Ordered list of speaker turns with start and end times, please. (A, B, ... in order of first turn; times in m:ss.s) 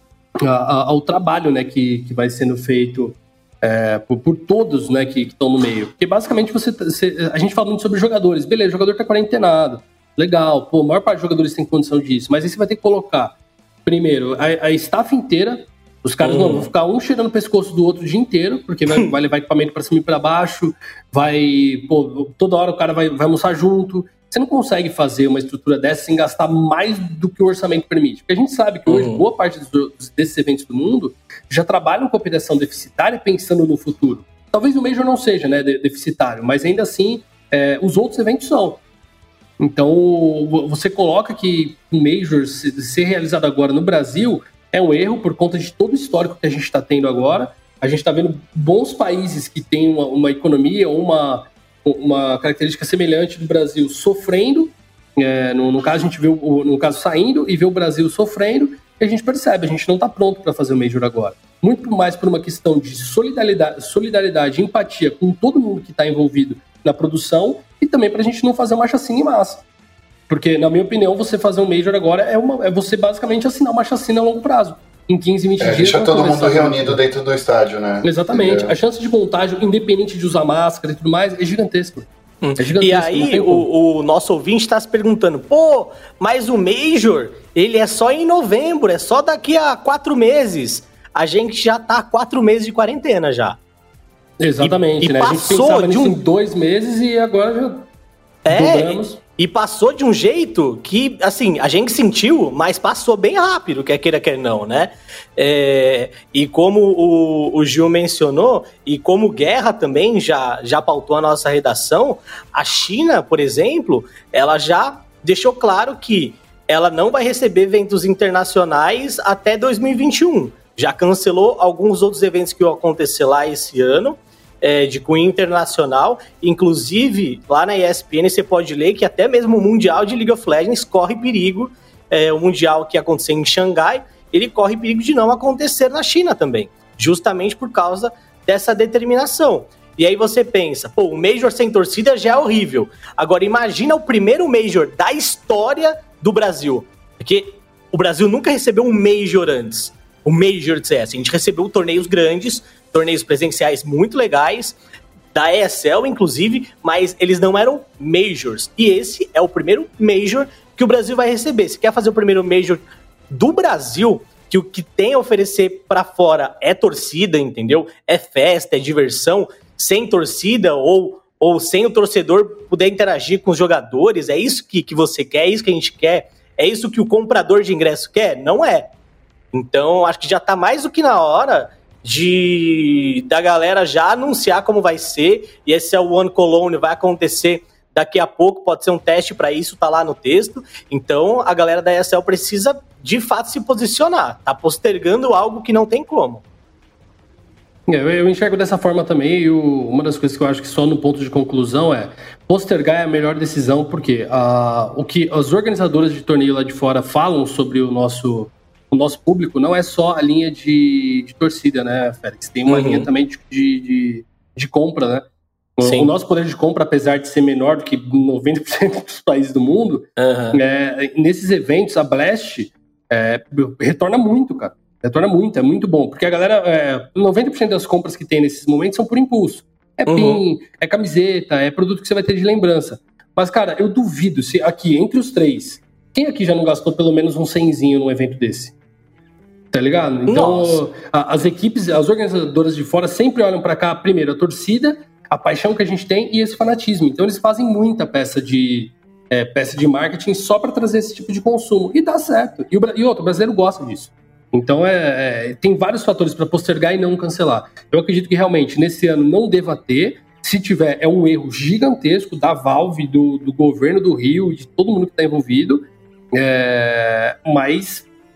0:00.4-0:38.8 A
0:16.2-0:16.7 B
0:28.9-0:29.2 B
0:39.6-1:09.6 A
1:10.3-1:17.0 A
1:15.6-1:18.7 C
1:18.0-1:23.7 A
1:22.4-1:33.6 B
1:34.4-1:37.9 A
1:34.6-1:36.2 B
1:38.4-2:34.8 B
1:38.5-1:39.2 A
2:35.3-2:58.9 B
2:59.5-3:16.4 B
3:17.9-3:58.7 A
3:32.7-3:33.1 B
3:35.8-3:36.1 B
3:40.2-3:40.6 B
3:50.1-3:50.4 B
3:59.7-4:28.1 A
4:00.3-4:00.8 B